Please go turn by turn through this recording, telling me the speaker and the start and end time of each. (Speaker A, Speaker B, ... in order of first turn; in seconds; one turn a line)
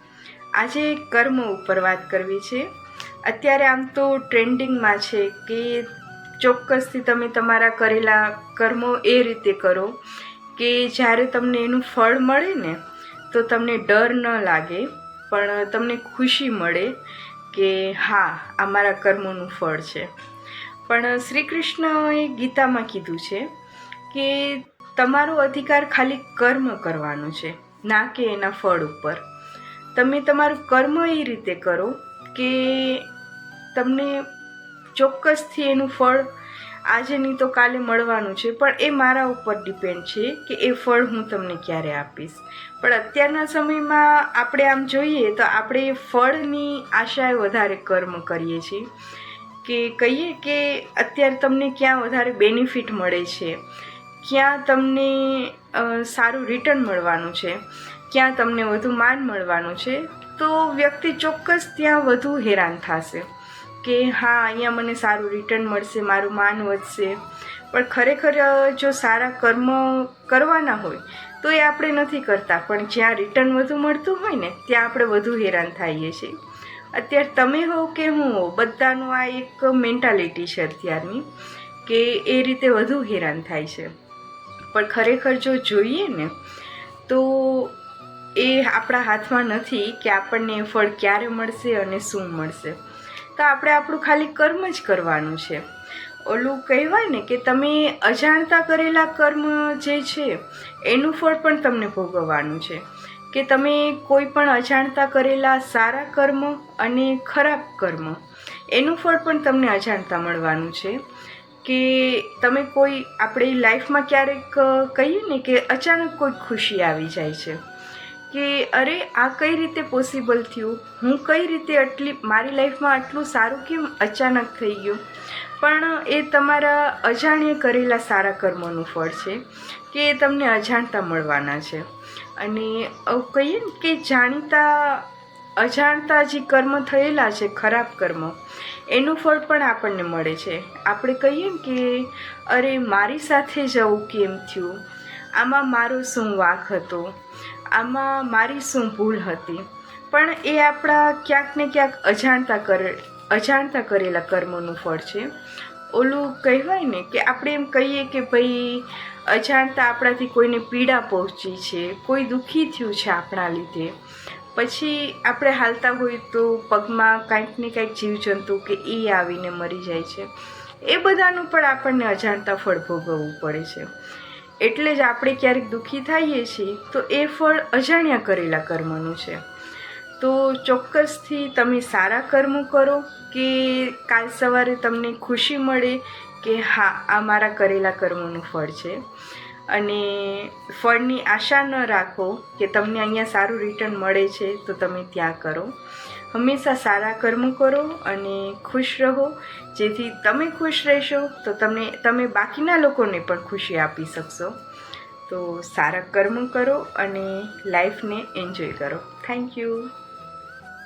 Speaker A: 0.6-2.7
Speaker A: 3.3-5.9
Speaker A: 6.4-10.0
Speaker A: 10.6-12.8
Speaker A: 13.3-16.9
Speaker A: 17.5-20.1
Speaker A: 20.9-23.5
Speaker A: 24.1-29.2
Speaker A: 29.9-33.1
Speaker A: 33.8-34.3
Speaker A: 35.0-36.3
Speaker A: 36.9-48.9
Speaker A: 49.6-53.6
Speaker A: 54.2-63.3
Speaker A: 63.8-67.2
Speaker A: 67.7-76.4
Speaker A: 76.9-81.2
Speaker A: 81.8-83.9
Speaker A: 84.7-86.3
Speaker A: 87.1-87.8
Speaker A: 88.4-92.8
Speaker A: 93.4-95.6
Speaker A: 96.3-108.2
Speaker A: 108.7-111.0
Speaker A: 111.6-117.6
Speaker A: 118.3-125.0
Speaker A: 125.6-144.8
Speaker A: 145.3-147.2
Speaker A: 147.7-155.3
Speaker A: 155.9-163.9
Speaker A: 164.6-170.3
Speaker A: 170.8-173.9
Speaker A: 174.6-179.4
Speaker A: 180.2-189.0
Speaker A: 189.7-195.7
Speaker A: 196.3-204.6
Speaker A: 205.3-209.9